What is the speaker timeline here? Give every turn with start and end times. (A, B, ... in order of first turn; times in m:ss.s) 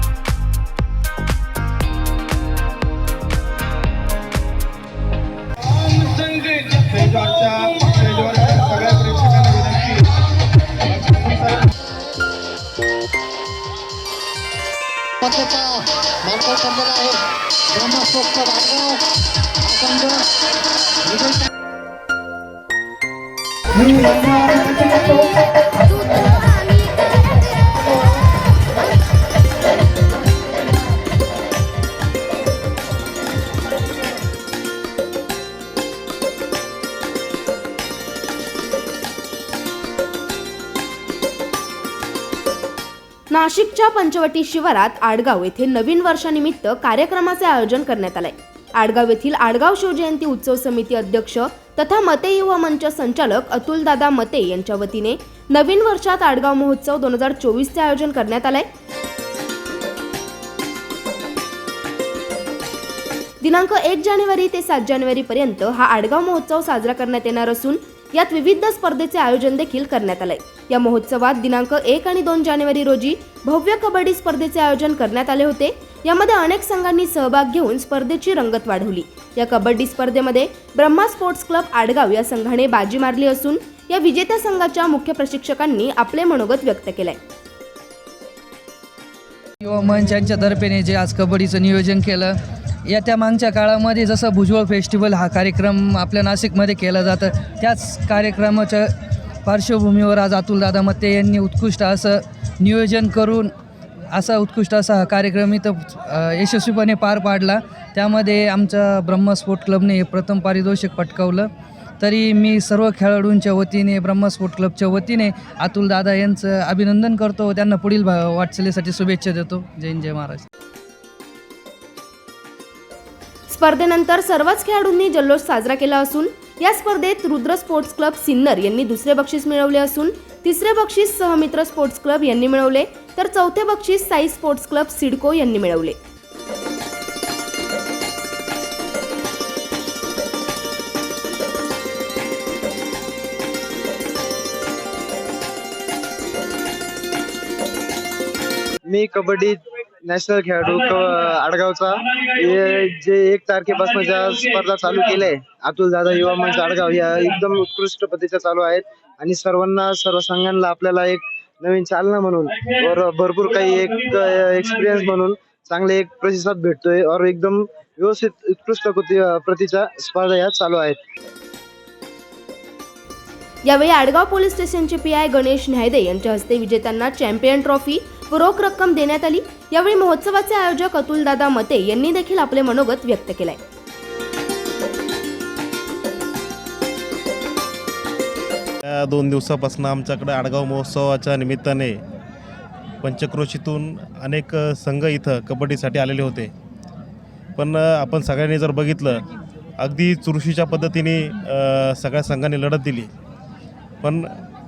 0:06.0-0:09.8 A
0:15.2-0:17.2 A
0:17.8-0:19.0 A
0:19.6-0:20.2 A
0:24.0-0:24.9 B
0:43.3-0:58.7 C
1:03.4-1:27.2 C
1:29.6-1:38.9 B
1:39.4-1:43.5 B
1:44.1-1:51.5 B
1:52.0-2:00.4 B
2:03.5-2:16.0 C
2:28.9-2:51.0 D
2:53.7-3:03.6 C
3:08.8-3:12.0 E
3:13.0-3:16.5 E
3:17.6-3:19.2 E
3:19.8-3:23.1 E